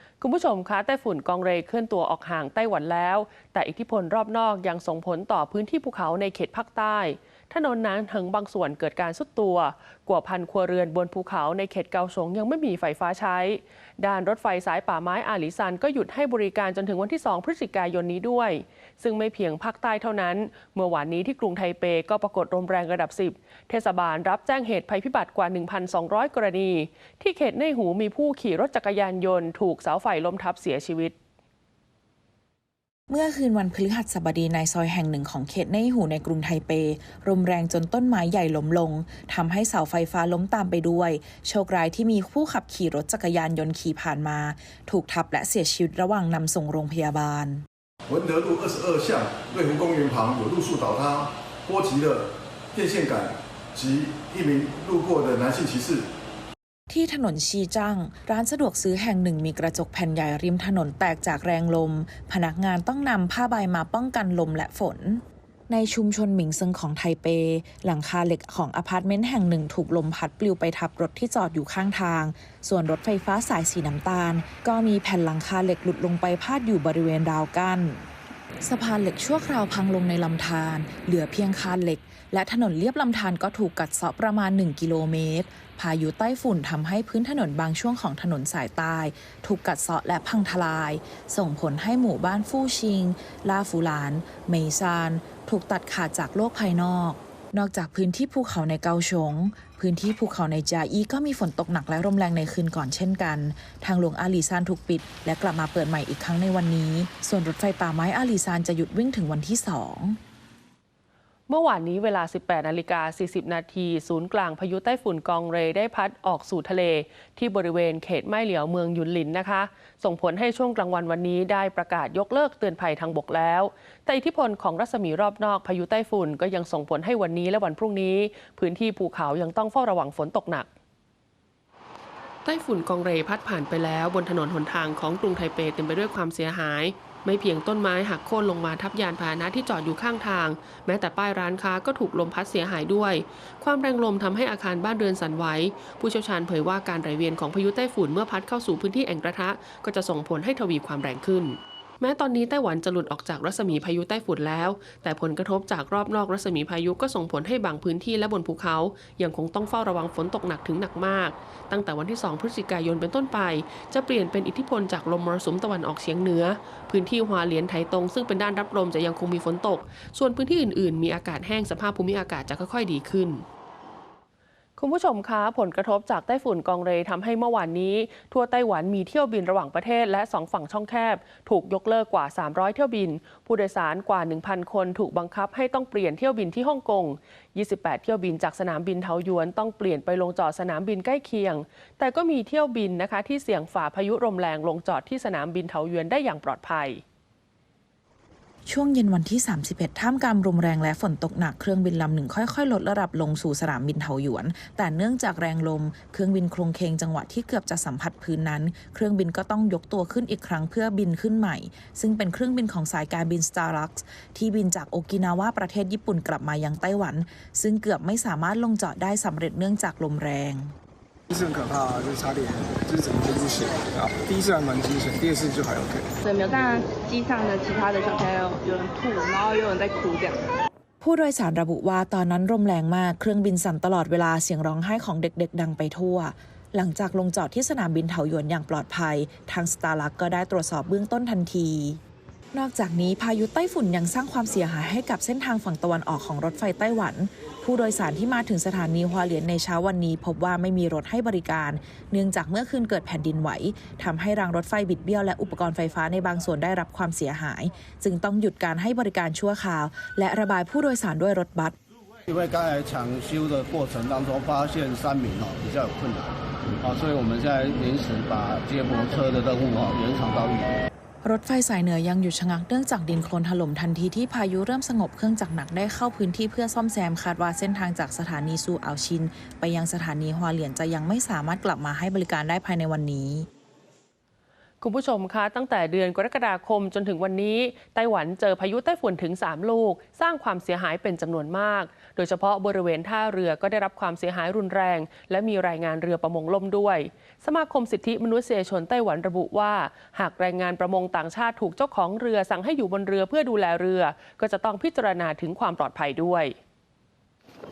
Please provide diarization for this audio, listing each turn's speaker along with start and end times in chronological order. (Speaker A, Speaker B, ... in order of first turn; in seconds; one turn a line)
Speaker A: 0.2-31.1
Speaker B: 33.1-47.6
Speaker C: 48.1-56.1
Speaker B: 56.9-78.1
Speaker B: 78.6-110.2
Speaker A: 111.5-130.7
Speaker A: 132.4-173.4
Speaker A: 174.8-197.0
Speaker B: 198.7-220.8
Speaker D: 221.3-226.2
Speaker E: 226.2-230.4
Speaker B: 231.0-242.0
Speaker B: 242.5-261.8
Speaker F: 262.3-270.8
Speaker B: 271.2-283.5
Speaker A: 284.8-306.6